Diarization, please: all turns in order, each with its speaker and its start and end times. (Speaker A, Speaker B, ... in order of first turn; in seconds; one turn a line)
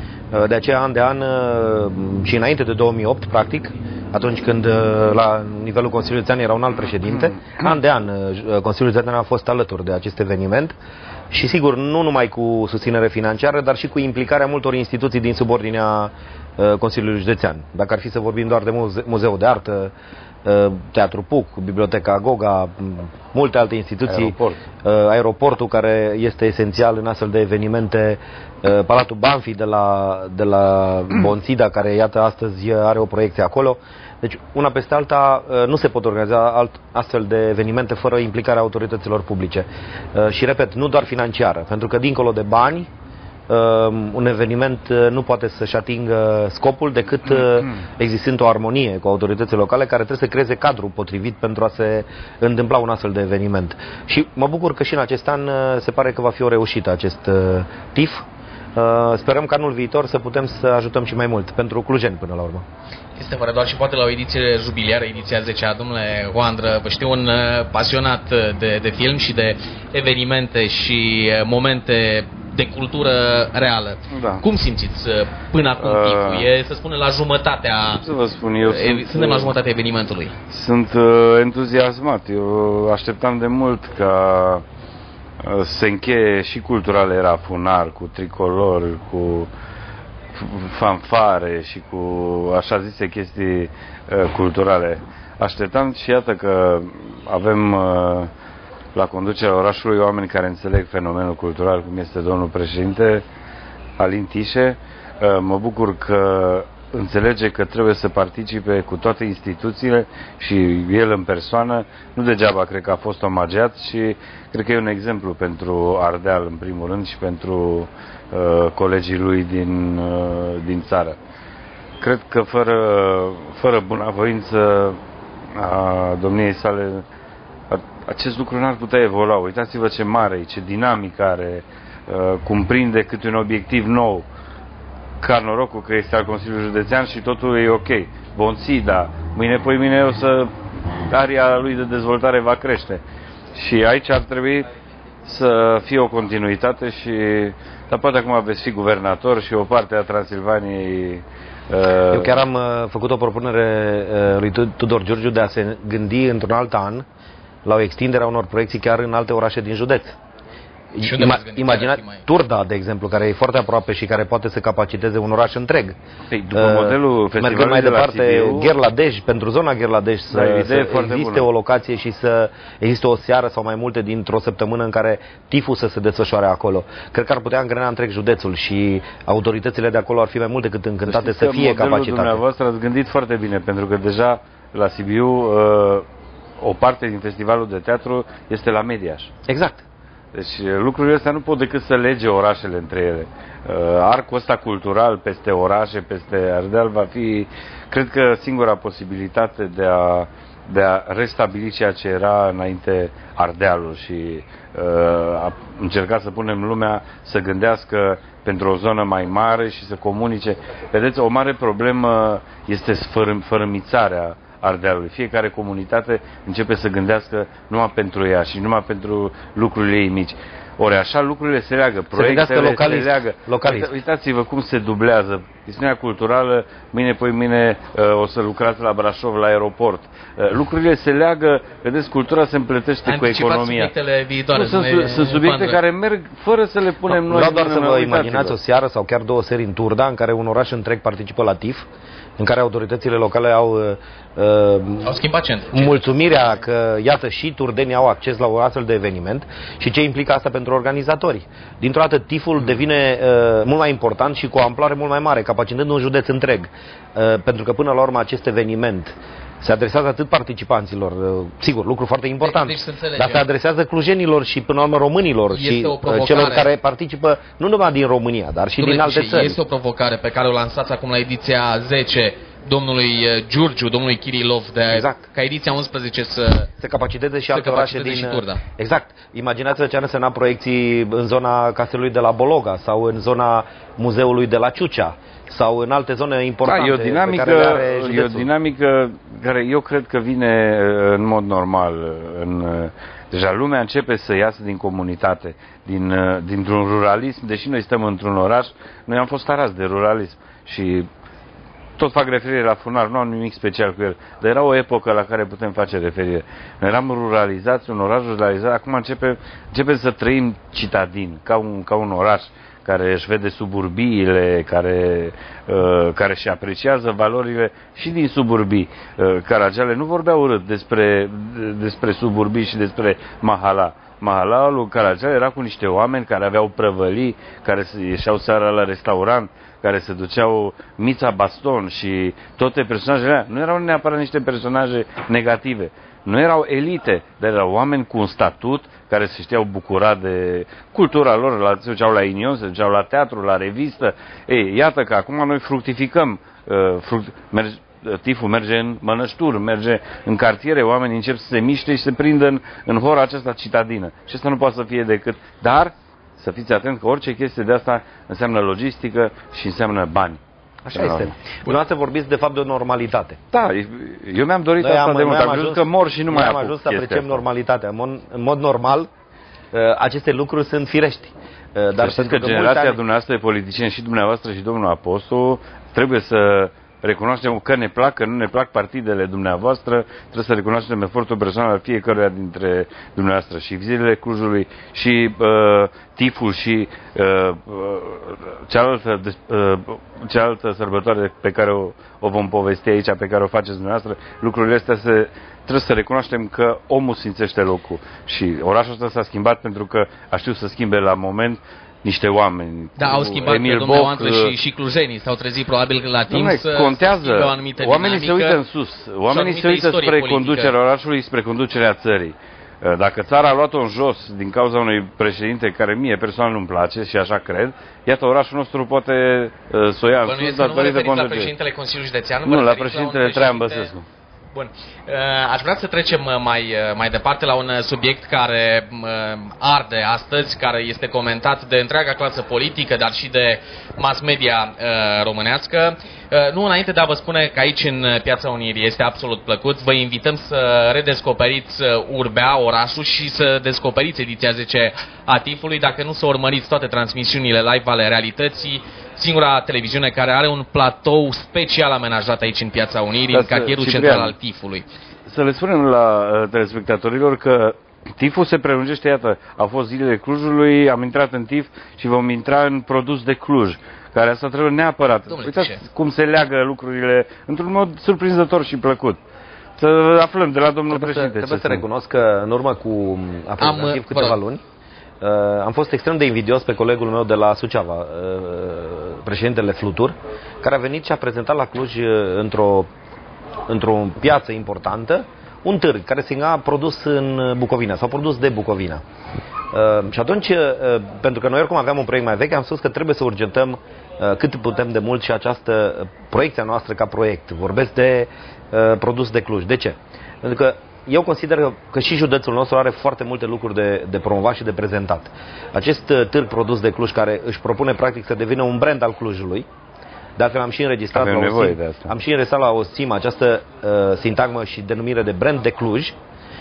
Speaker A: 0.3-10.8
Speaker A: 11.3-19.9
Speaker A: 20.4-42.9
Speaker B: 24.1-24.6
Speaker A: 43.5-62.6
Speaker C: 63.1-78.0
Speaker B: 74.1-74.4
Speaker B: 75.8-76.5
Speaker B: 78.0-79.5
Speaker C: 78.6-80.3
Speaker B: 80.5-84.6
Speaker B: 85.4-89.5
Speaker B: 90.3-98.3
Speaker B: 99.0-103.2
Speaker B: 104.0-121.2
Speaker B: 122.0-125.0
Speaker B: 125.5-127.0
Speaker B: 127.7-134.2
Speaker B: 135.2-140.5
Speaker B: 141.1-143.0
Speaker B: 143.5-144.7
Speaker B: 145.2-152.4
Speaker A: 152.1-157.0
Speaker A: 157.6-160.2
Speaker A: 160.9-166.0
Speaker C: 161.0-162.2
Speaker B: 166.3-168.7
Speaker A: 166.5-182.4
Speaker B: 170.3-171.5
Speaker B: 181.1-186.1
Speaker B: 186.6-189.3
Speaker A: 189.5-189.8
Speaker B: 190.3-233.9
Speaker A: 222.1-223.9
Speaker C: 233.1-235.8
Speaker B: 234.5-238.6
Speaker A: 237.1-241.9
Speaker A: 242.4-245.2
Speaker C: 245.0-246.4
Speaker A: 245.7-269.6
Speaker C: 262.4-263.4
Speaker C: 265.5-266.7
Speaker C: 268.8-276.7
Speaker A: 274.9-275.2
Speaker A: 276.8-288.5
Speaker C: 277.5-278.6
Speaker B: 286.6-301.1
Speaker B: 302.0-360.4
Speaker A: 360.9-363.4
Speaker B: 360.9-361.3
Speaker B: 363.5-367.4
Speaker A: 364.8-369.1
Speaker A: 369.7-373.0
Speaker B: 372.0-404.5
Speaker C: 403.0-408.6
Speaker B: 406.3-421.5
Speaker C: 409.3-410.7
Speaker C: 420.3-423.9
Speaker B: 422.4-424.1
Speaker C: 424.5-454.9
Speaker B: 453.3-454.3
Speaker B: 455.3-469.2
Speaker C: 465.3-465.8
Speaker B: 469.8-471.8
Speaker A: 470.9-474.6
Speaker C: 473.6-474.4
Speaker A: 475.2-482.9
Speaker A: 483.7-489.0
Speaker A: 489.7-509.6
Speaker A: 510.4-516.1
Speaker B: 511.1-512.1